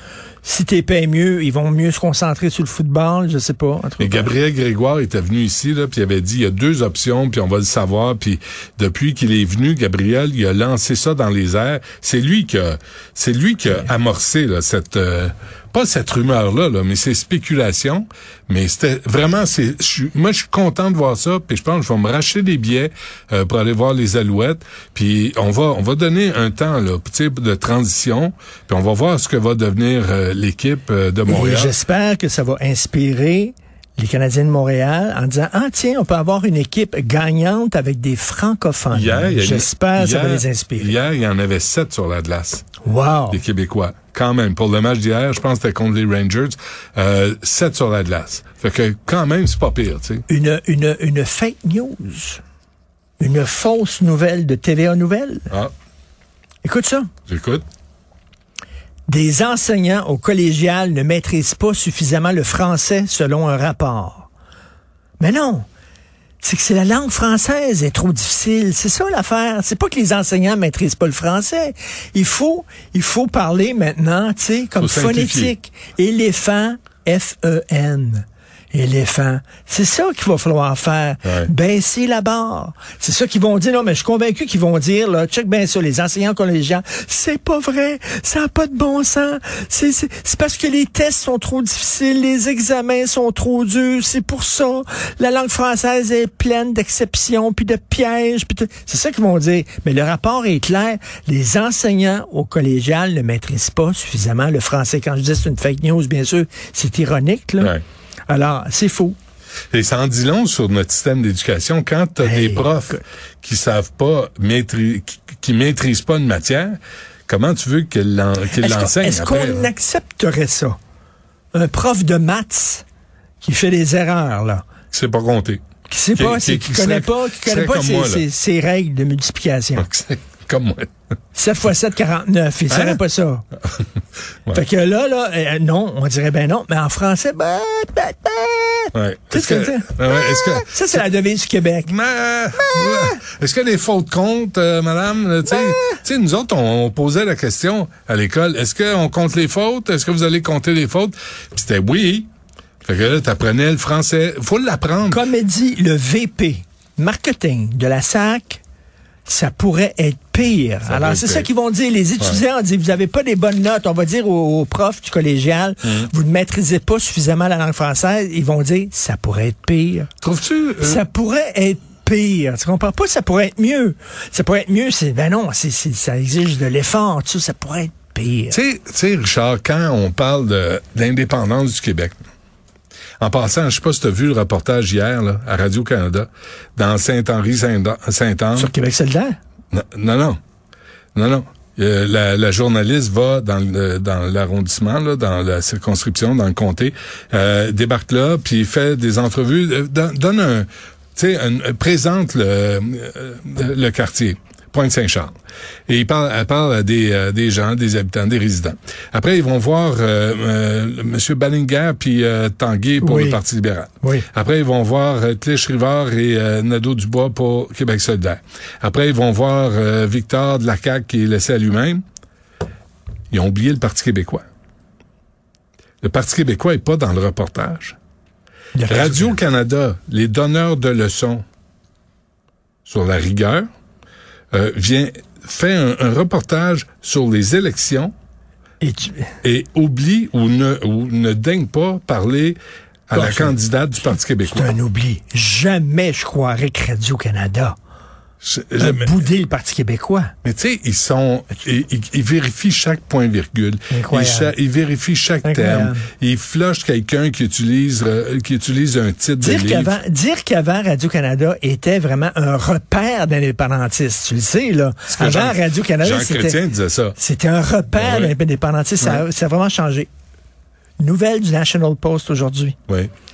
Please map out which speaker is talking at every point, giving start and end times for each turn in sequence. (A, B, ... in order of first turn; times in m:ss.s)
0:00.4-0:04.3 A
0:04.0-0:31.8 B
0:31.2-0:41.0 A
0:38.9-0:42.7 B
0:42.8-0:43.4 A
0:43.3-0:50.2 B
0:50.3-0:52.4 A
0:53.2-0:55.5 A
0:56.6-0:57.1 A
0:57.3-0:57.6 B
0:59.1-1:04.3 A
1:05.2-1:05.6 A
1:06.4-1:47.7 A
1:14.8-1:15.5 B
1:21.2-1:21.5 B
1:48.3-1:49.2 A
1:49.7-1:59.7 B
1:52.2-1:53.0 A
1:58.6-2:00.8 A
2:01.5-2:02.8 A
2:03.4-2:04.6 A
2:04.9-2:05.6 B
2:05.9-2:09.9 A
2:06.1-2:08.2 B
2:09.8-2:10.9 B
2:11.3-2:13.4 A
2:12.7-2:13.0 B
2:14.5-2:21.9 A
2:18.9-2:21.1 B
2:21.8-2:32.3 B
2:22.7-2:23.0 A
2:32.8-2:35.2 B
2:35.1-2:38.6 A
2:39.2-2:50.1 A
2:40.8-2:41.5 B
2:45.8-2:46.1 B
2:50.2-2:51.0 B
2:50.8-2:58.6 A
2:58.5-3:02.2 B
3:03.2-3:08.7 B
3:08.5-3:09.4 A
3:09.7-3:10.4 B
3:11.1-3:25.4 B
3:25.9-3:42.0 B
3:33.0-3:33.4 A
3:34.0-3:34.3 A
3:43.3-3:44.4 B
3:46.0-3:48.0 B
3:48.7-3:49.4 A
3:48.9-3:51.4 B
3:52.8-3:53.7 B
3:54.5-3:58.1 B
3:58.8-3:59.3 A
3:59.4-4:04.7 B
4:03.1-4:03.6 A
4:04.4-4:07.8 A
4:08.4-4:09.2 B
4:08.8-4:10.3 A
4:10.4-4:20.0 B
4:13.9-4:14.5 A
4:15.4-4:16.0 A
4:19.4-4:26.6 A
4:25.1-4:27.2 B
4:27.1-4:30.1 A
4:28.0-4:28.3 B
4:31.0-4:32.8 A